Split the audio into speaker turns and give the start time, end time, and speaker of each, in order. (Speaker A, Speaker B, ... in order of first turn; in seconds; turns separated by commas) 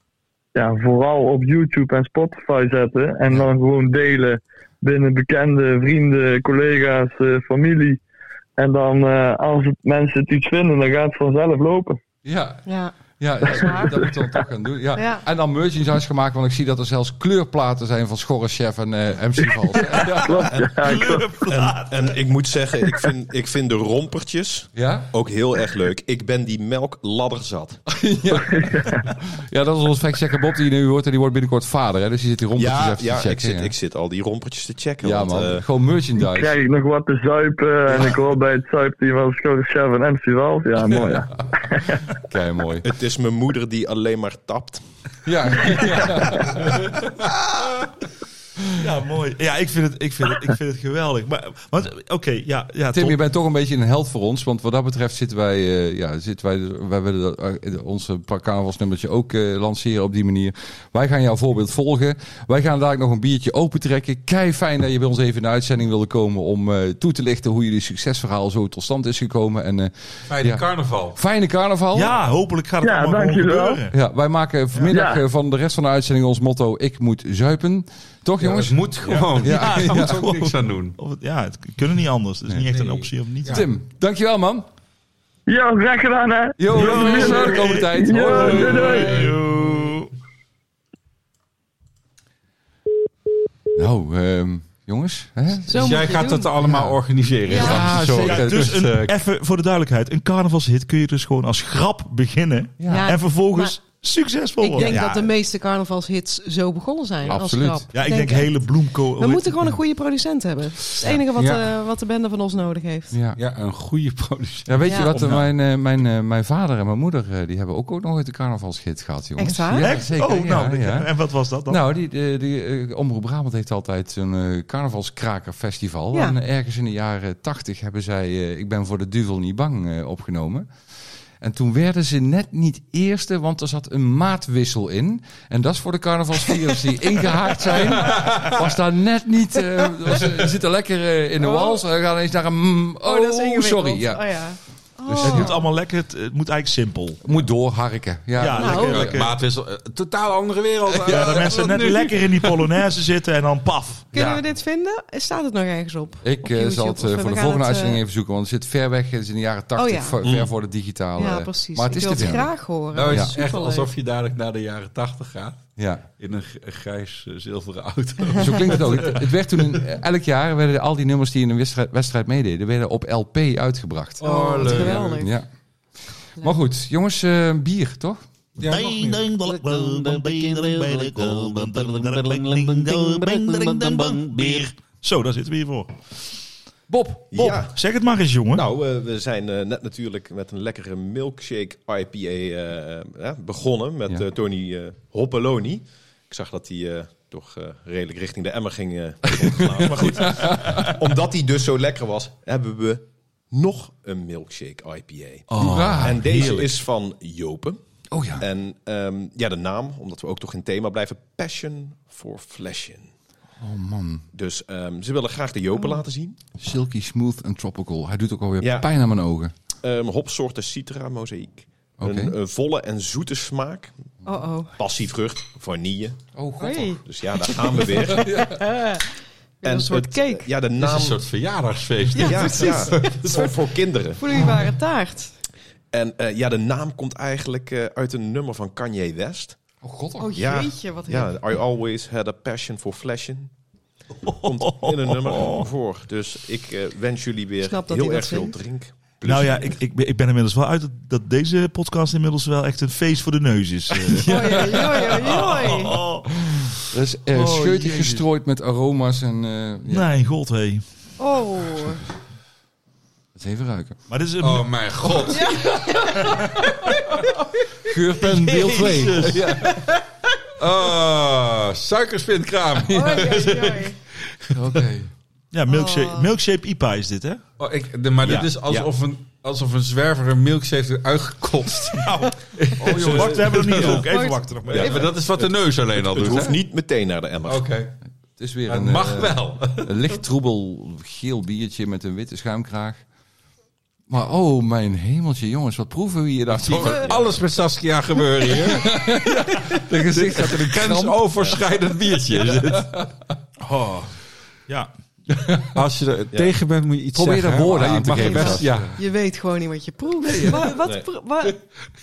Speaker A: 0.6-8.0, Speaker A: 8.6-12.0, Speaker B: 12.2-12.7, Speaker C: 12.7-12.9, Speaker B: 13.2-20.5, Speaker C: 13.4-13.9, Speaker C: 15.0-15.2, Speaker A: 20.1-21.3, Speaker D: 20.8-22.1, Speaker E: 21.5-27.8, Speaker B: 24.8-25.1, Speaker B: 27.9-33.7, Speaker A: 28.4-29.1, Speaker E: 32.6-35.6, Speaker B: 35.0-36.6, Speaker A: 36.2-42.0, Speaker B: 42.2-42.9, Speaker E: 42.8-44.8, Speaker B: 45.2-46.8, Speaker D: 48.8-53.2, Speaker B: 52.9-72.2, Speaker F: 70.3-71.2, Speaker D: 71.9-73.9, Speaker A: 72.8-73.8, Speaker B: 73.9-80.3, Speaker A: 74.9-75.2, Speaker F: 78.4-81.0, Speaker D: 79.1-83.7, Speaker F: 82.7-83.7, Speaker B: 83.5-84.7, Speaker A: 85.5-89.2, Speaker B: 86.6-89.1, Speaker D: 86.7-90.1, Speaker F: 88.3-90.0, Speaker B: 93.8-95.9, Speaker C: 95.7-96.5, Speaker F: 95.7-99.1, Speaker B: 96.6-97.0, Speaker C: 97.5-97.8, Speaker B: 97.5-98.9, Speaker D: 97.6-105.3, Speaker B: 102.8-103.1, Speaker C: 102.9-103.8, Speaker C: 104.6-113.2, Speaker B: 107.3-107.9, Speaker D: 107.9-109.8, Speaker F: 111.4-111.7, Speaker B: 113.1-113.4, Speaker F: 113.4-115.5, Speaker B: 114.7-121.1, Speaker C: 114.8-115.2, Speaker C: 119.4-119.9, Speaker D: 119.8-121.8, Speaker B: 121.7-130.7, Speaker B: 131.4-144.2, Speaker F: 138.0-138.5, Speaker C: 141.4-141.8, Speaker C: 143.0-145.7, Speaker B: 145.1-145.6, Speaker D: 145.2-147.2, Speaker B: 147.2-149.2, Speaker D: 148.4-149.4, Speaker C: 148.6-149.1, Speaker F: 148.8-152.6, Speaker D: 151.0-154.4, Speaker B: 151.1-151.4, Speaker C: 154.1-158.0, Speaker B: 156.2-162.5, Speaker C: 159.8-160.2, Speaker E: 160.2-160.5, Speaker C: 161.2-163.9, Speaker F: 162.9-165.7, Speaker B: 165.8-166.1, Speaker F: 166.2-169.8, Speaker B: 168.4-175.5, Speaker F: 174.2-175.2, Speaker C: 174.2-175.3, Speaker B: 176.4-178.2, Speaker F: 178.6-184.7, Speaker D: 178.7-186.0, Speaker B: 186.9-187.3, Speaker E: 187.3-187.8, Speaker D: 187.3-188.7, Speaker E: 188.5-207.8, Speaker B: 199.5-200.7, Speaker D: 199.7-201.0, Speaker B: 205.6-206.7, Speaker D: 205.7-206.5, Speaker B: 208.1-208.4, Speaker E: 208.4-213.1, Speaker B: 213.6-214.2, Speaker E: 214.3-216.4, Speaker B: 216.6-219.5, Speaker E: 218.6-218.9, Speaker E: 219.8-223.9, Speaker B: 222.0-222.4, Speaker C: 224.2-224.8, Speaker E: 224.8-226.2, Speaker B: 226.3-226.9, Speaker C: 226.6-229.1, Speaker E: 227.0-228.5, Speaker B: 228.2-228.6, Speaker C: 229.6-230.5, Speaker E: 229.6-231.2, Speaker F: 230.8-233.2, Speaker C: 232.1-233.6, Speaker E: 232.1-234.5, Speaker C: 234.2-235.3, Speaker E: 235.9-239.6, Speaker B: 239.8-240.4, Speaker C: 240.2-241.3, Speaker E: 240.3-243.5, Speaker D: 244.2-245.7, Speaker E: 244.4-249.8, Speaker C: 247.6-248.6, Speaker D: 249.2-258.2, Speaker B: 254.2-255.1, Speaker C: 254.2-256.0, Speaker B: 256.9-260.1, Speaker D: 259.9-260.8, Speaker C: 261.2-262.0, Speaker B: 263.4-264.0, Speaker D: 264.1-265.4, Speaker F: 264.4-266.0, Speaker C: 265.3-266.7, Speaker B: 267.9-269.8, Speaker D: 268.3-269.4, Speaker F: 268.4-269.7, Speaker F: 270.6-274.8, Speaker C: 272.9-274.0, Speaker B: 272.9-273.2, Speaker B: 274.5-275.1, Speaker D: 275.5-277.4, Speaker C: 275.7-276.3, Speaker F: 277.6-284.1, Speaker E: 278.2-278.9, Speaker D: 281.9-285.1, Speaker E: 282.9-284.1, Speaker C: 284.0-285.1, Speaker F: 284.7-286.6, Speaker E: 285.4-287.7, Speaker F: 287.5-287.9, Speaker B: 288.4-293.0, Speaker F: 288.7-289.9, Speaker B: 294.1-297.4, Speaker F: 296.5-298.9, Speaker B: 298.6-301.6, Speaker F: 299.8-303.1, Speaker B: 302.5-302.9, Speaker F: 303.6-304.1, Speaker B: 305.4-305.7, Speaker F: 305.7-309.0, Speaker B: 307.1-309.0, Speaker C: 308.1-311.6, Speaker B: 310.3-310.7, Speaker E: 310.8-311.1